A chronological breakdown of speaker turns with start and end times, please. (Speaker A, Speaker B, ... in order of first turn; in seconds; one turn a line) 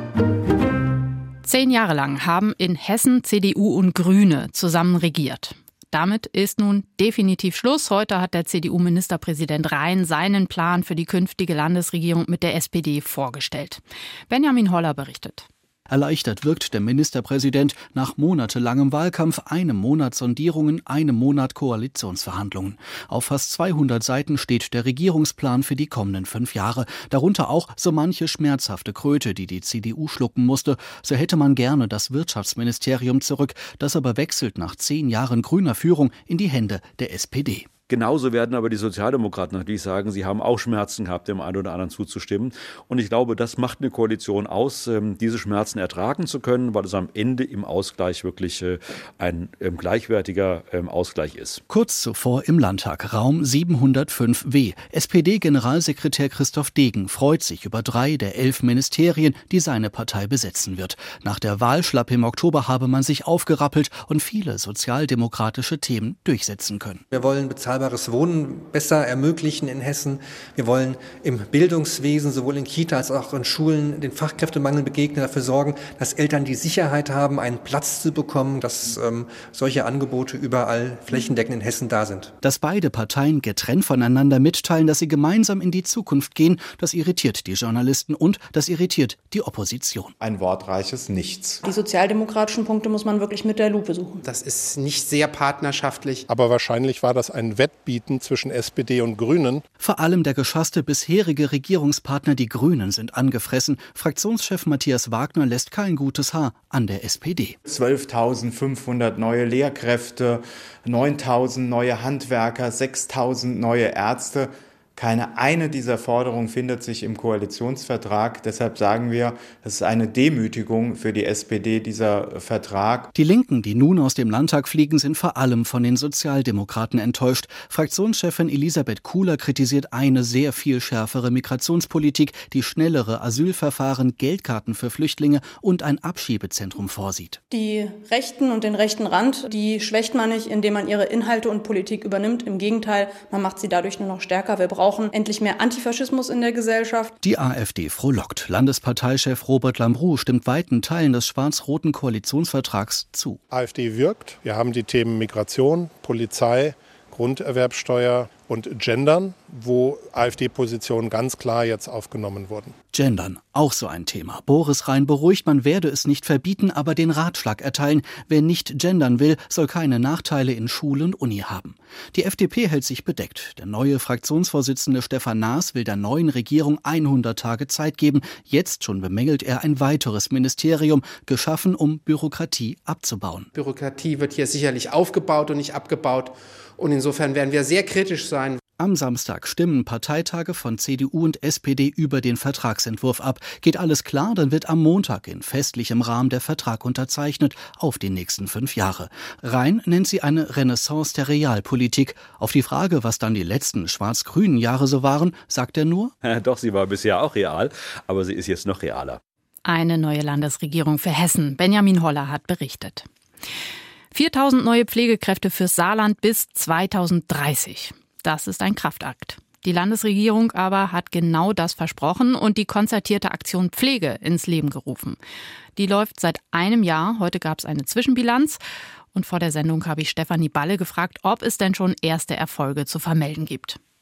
Speaker A: 1.4-15.5
Speaker B: 15.9-37.7
Speaker C: 37.9-51.6
Speaker B: 51.7-67.0
Speaker D: 67.1-82.3
Speaker B: 82.4-90.1
Speaker E: 90.2-91.6
Speaker F: 91.9-94.0
Speaker G: 94.3-96.2
Speaker H: 96.3-99.6
Speaker B: 99.8-107.6
Speaker E: 107.6-123.1
Speaker B: 123.1-137.4
Speaker F: 137.5-147.1
Speaker B: 147.2-153.4
Speaker H: 153.5-162.7
Speaker B: 162.9-183.5
Speaker G: 183.6-188.6
Speaker B: 188.8-206.1
Speaker C: 206.2-209.2
Speaker A: 209.6-213.1
Speaker A: 214.1-225.2
Speaker A: 225.8-228.6
Speaker A: 229.1-233.8